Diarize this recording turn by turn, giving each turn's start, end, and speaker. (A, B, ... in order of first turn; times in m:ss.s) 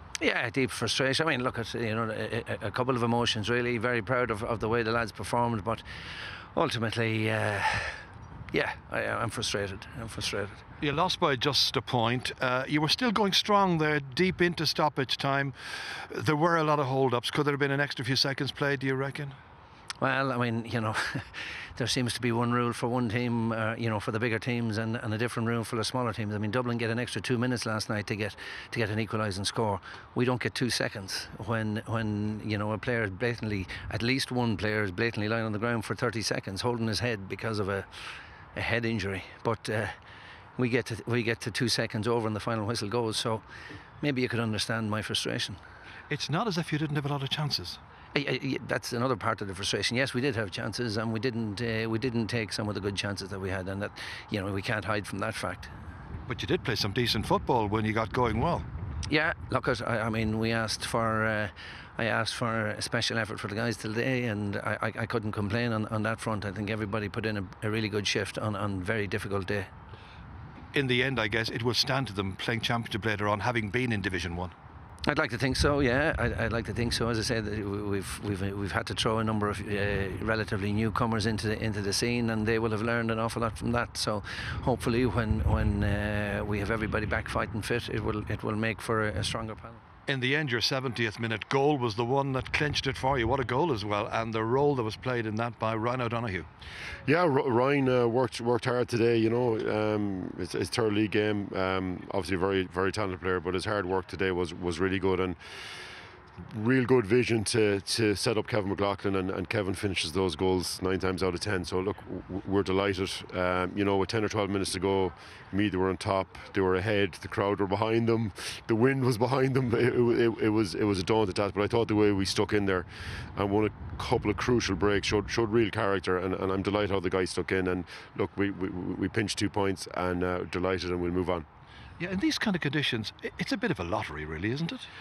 0:00.2-0:05.8 A
0:06.5-0:10.6 A
0:10.8-0:19.4 B
0:20.0-0:37.9 A
0:38.5-0:40.0 A
0:40.6-0:43.4 A
0:44.0-0:45.6 A
0:46.1-0:47.8 B
0:48.1-0:55.7 A
0:56.3-0:58.6 B
0:59.1-1:09.7 A
1:10.7-1:14.5 B
1:15.0-1:29.8 A
1:30.1-1:36.5 B
1:37.0-1:45.4 C
1:46.4-2:11.4 C
2:12.0-2:14.9 B